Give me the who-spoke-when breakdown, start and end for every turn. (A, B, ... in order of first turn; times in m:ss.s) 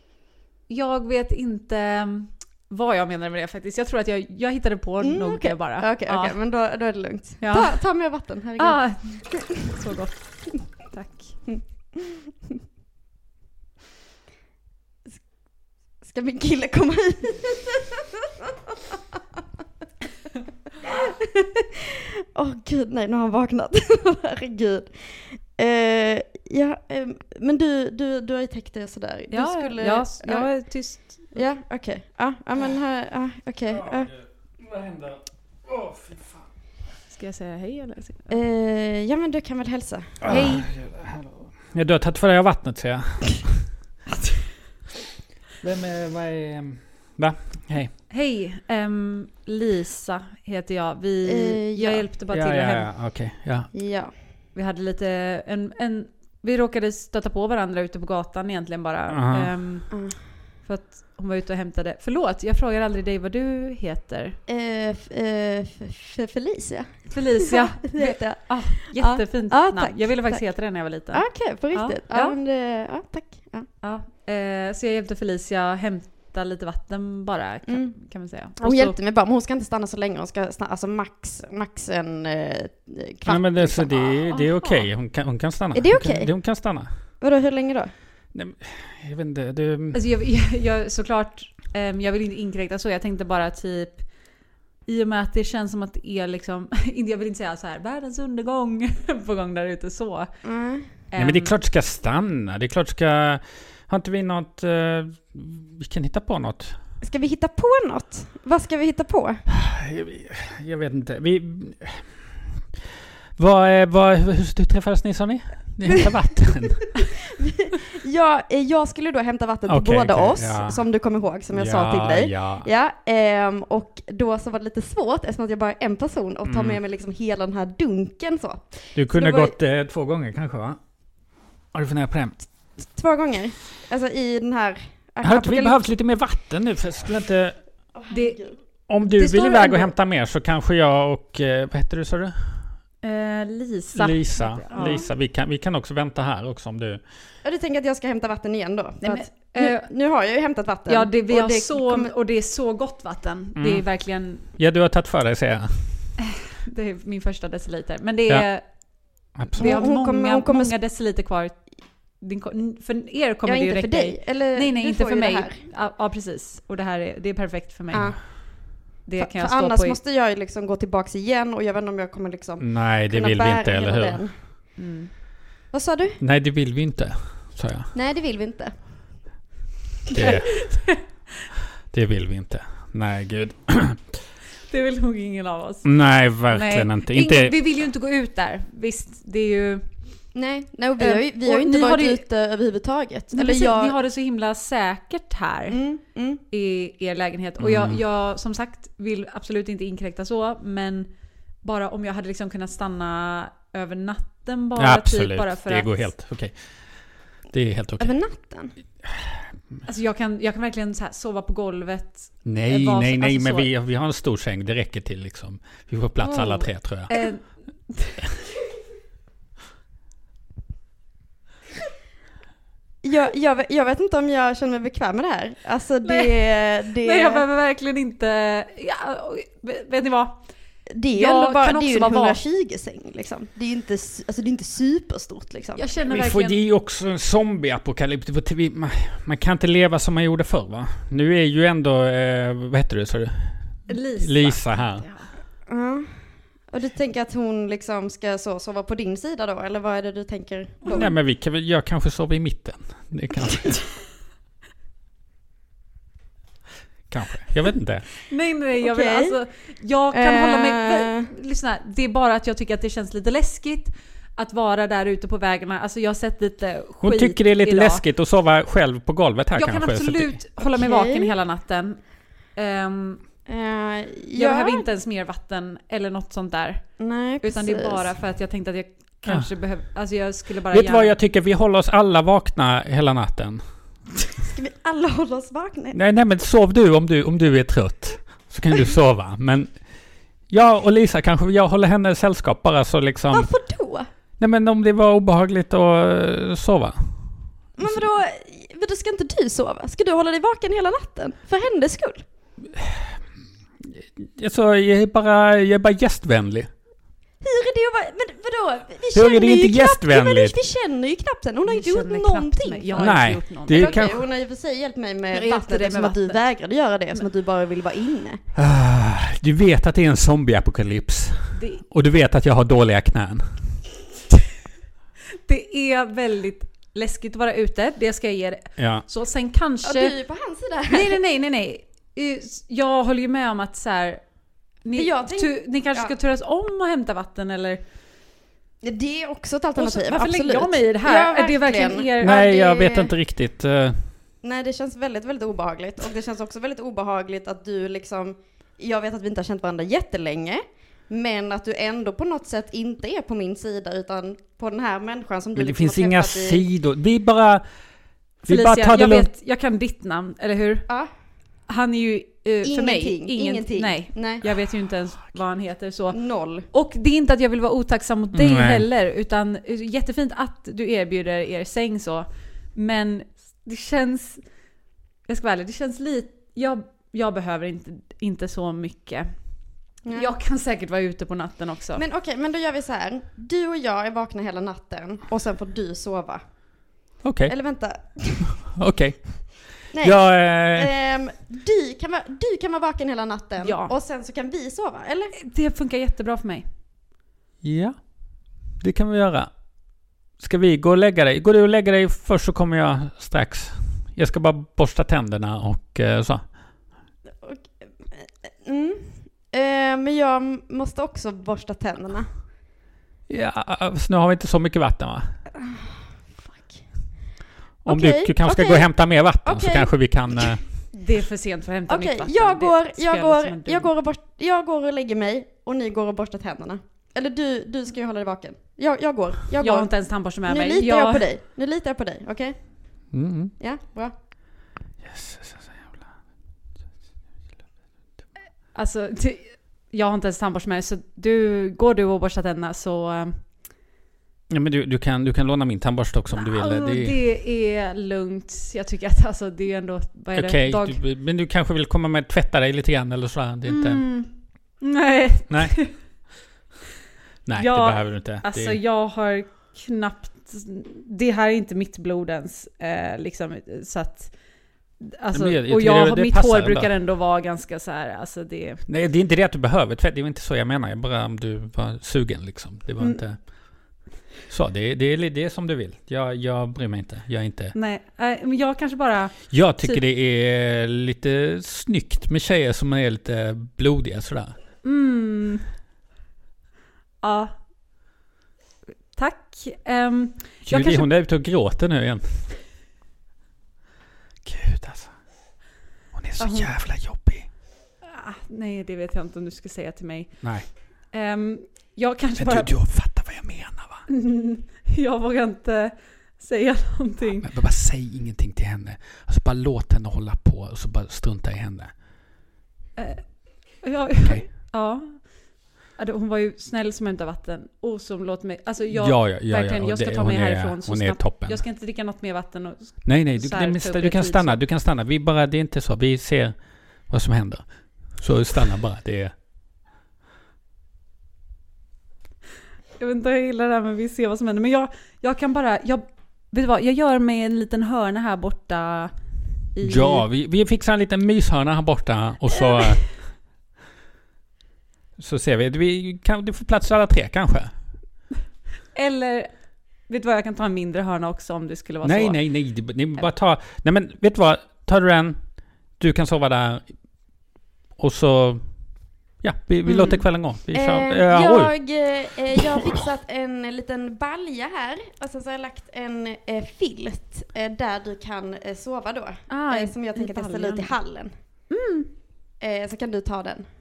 0:00.7-0:06.6 A
0:05.0-0:09.6 B
0:07.4-0:11.5 A
0:11.5-0:12.1 B
0:15.1-0:18.0 B
0:20.8-0:34.1 B
0:29.3-0:31.4 A
0:33.7-0:36.4 C
0:37.1-0:38.4 A
0:38.3-0:40.5 B
0:40.2-0:43.6 C
0:40.3-0:40.7 A
0:45.6-0:47.9 C
0:48.1-0:52.9 A
0:51.3-0:52.1 B
0:52.3-0:53.7 C
0:53.7-0:54.1 B
0:54.5-1:04.4 A
0:59.1-0:59.5 C
0:59.9-1:00.2 B
1:04.5-1:13.7 B
1:07.1-1:12.4 A
1:13.8-1:19.0 A
1:17.7-1:18.0 B
1:18.6-1:24.3 B
1:23.3-1:26.9 C
1:24.3-1:24.9 A
1:25.7-1:26.5 B
1:27.2-1:27.9 B
1:28.3-1:30.0 C
1:29.9-1:40.3 A
1:40.4-1:41.0 B
1:41.1-1:41.5 A
1:41.2-1:46.8 C
1:47.0-1:49.4 B
1:49.5-1:52.4 C
1:53.4-1:57.2 C
1:57.4-2:09.5 B
1:59.7-2:00.9 C
2:01.5-2:02.7 C
2:06.4-2:06.8 C
2:09.0-2:10.8 C
2:11.7-2:12.5 C
2:12.8-2:15.8 B
2:15.2-2:17.6 C
2:17.9-2:18.6 B
2:18.1-2:18.5 A
2:18.9-2:22.6 C
2:19.0-2:19.9 A
2:23.0-2:25.0 A
2:23.9-2:27.0 C
2:24.7-2:25.1 B
2:27.4-2:32.1 B
2:29.0-2:29.9 A
2:30.9-2:34.4 A
2:33.6-2:36.1 C
2:36.6-2:48.5 A
2:39.1-2:39.8 C
2:39.6-2:40.8 B
2:43.5-2:45.6 B
2:47.9-2:54.7 B
2:49.0-2:50.0 A
2:52.6-2:54.2 C
2:54.8-2:55.1 A
2:55.7-2:56.2 B
2:56.2-2:57.9 C
2:57.9-2:58.7 B
3:00.1-3:00.8 C
3:00.2-3:01.0 A
3:01.9-3:04.1 C
3:04.7-3:10.0 A
3:05.8-3:07.6 C
3:10.3-3:14.0 B
3:11.0-3:12.2 A
3:13.3-3:15.8 A
3:15.7-3:16.4 B
3:16.5-3:26.1 A
3:17.6-3:18.0 C
3:24.8-3:26.6 C
3:27.2-3:28.2 C
3:28.0-3:28.7 B
3:29.8-3:33.7 A
3:32.4-3:37.1 C
3:36.2-3:37.3 B
3:37.1-3:38.2 A
3:43.0-3:47.4 B
3:46.0-3:50.5 A
3:50.9-3:55.9 B
3:51.1-3:52.4 A
3:55.8-3:56.6 A
3:56.1-4:05.0 C
4:03.9-4:05.3 A
4:05.7-4:06.1 B
4:06.7-4:11.1 B
4:10.8-4:11.1 A
4:10.9-4:13.9 C
4:17.1-4:18.1 C
4:18.2-4:28.1 A
4:18.8-4:19.4 B
4:20.1-4:21.3 B
4:27.0-4:30.4 C
4:29.5-4:33.2 A
4:30.6-4:31.3 B
4:33.5-4:34.9 B
4:34.4-4:41.2 A
4:37.0-4:38.1 B
4:40.7-4:43.6 C
4:44.4-4:46.0 B
4:45.9-4:49.7 C
4:50.5-4:53.5 C
4:53.3-4:54.1 B
4:54.4-4:58.0 C
4:57.8-5:02.2 B
5:02.8-5:03.2 C
5:04.2-5:06.7 C
5:07.4-5:18.4 B
5:09.1-5:10.6 C
5:11.7-5:14.0 A
5:13.0-5:14.3 C
5:15.3-5:16.4 A
5:18.6-5:23.6 C
5:21.5-5:21.8 A
5:25.4-5:30.2 A
5:28.8-5:29.1 C
5:29.8-5:31.2 B
5:30.9-5:37.8 A
5:34.9-5:36.1 B
5:38.8-5:43.2 B
5:39.8-5:42.4 A
5:42.2-5:44.1 C
5:44.4-5:56.7 B
5:55.6-5:57.6 C
5:58.4-5:59.3 C
5:58.5-6:00.9 A
6:01.7-6:14.4 A
6:02.6-6:04.4 B
6:06.1-6:06.7 B
6:08.3-6:08.9 C
6:15.3-6:22.0 A
6:20.0-6:20.3 B
6:22.0-6:28.6 B
6:27.2-6:27.6 C
6:28.5-6:30.9 C
6:29.9-6:35.3 B
6:33.6-6:33.9 A
6:35.4-6:36.7 A
6:37.6-6:39.5 C
6:40.4-6:46.9 C
6:47.4-6:52.2 B
6:53.3-6:55.3 C
6:55.6-6:57.0 B
6:57.8-7:00.8 C
6:57.9-7:00.6 B
7:00.9-7:03.9 A
7:01.9-7:13.0 B
7:09.6-7:11.3 A
7:13.1-7:13.5 C
7:13.6-7:14.1 B
7:15.0-7:16.1 C
7:18.7-7:23.4 A
7:24.5-7:27.2 C
7:26.4-7:31.0 A
7:30.4-7:34.0 C
7:33.7-7:35.9 A
7:35.5-7:35.9 C
7:37.5-7:38.8 C
7:37.6-7:48.8 A
7:45.3-7:46.9 C
7:48.9-7:53.5 C
7:53.0-7:53.3 A
7:54.4-7:57.7 C
7:57.7-8:00.0 A
7:59.5-8:04.5 C
8:04.8-8:05.6 A
8:07.2-8:07.5 A
8:09.1-8:11.1 A
8:10.7-8:12.5 C
8:14.4-8:15.1 C
8:16.1-8:17.5 C
8:16.4-8:16.7 A
8:18.0-8:22.8 A
8:20.4-8:20.7 C
8:22.4-8:24.0 C
8:24.1-8:27.5 A
8:27.4-8:31.9 C
8:33.0-8:44.6 A
8:34.2-8:34.5 C
8:38.9-8:41.6 C
8:43.0-8:49.3 C
8:53.0-8:59.1 A
8:59.7-9:00.2 A
8:59.8-9:03.2 C
9:05.2-9:07.7 C
9:08.9-9:12.5 A
9:12.0-9:16.9 C
9:18.0-9:18.6 C
9:19.4-9:22.0 C
9:19.9-9:20.3 A
9:20.7-9:31.3 B
9:29.5-9:30.9 A
9:31.7-9:32.1 A
9:32.6-9:33.7 B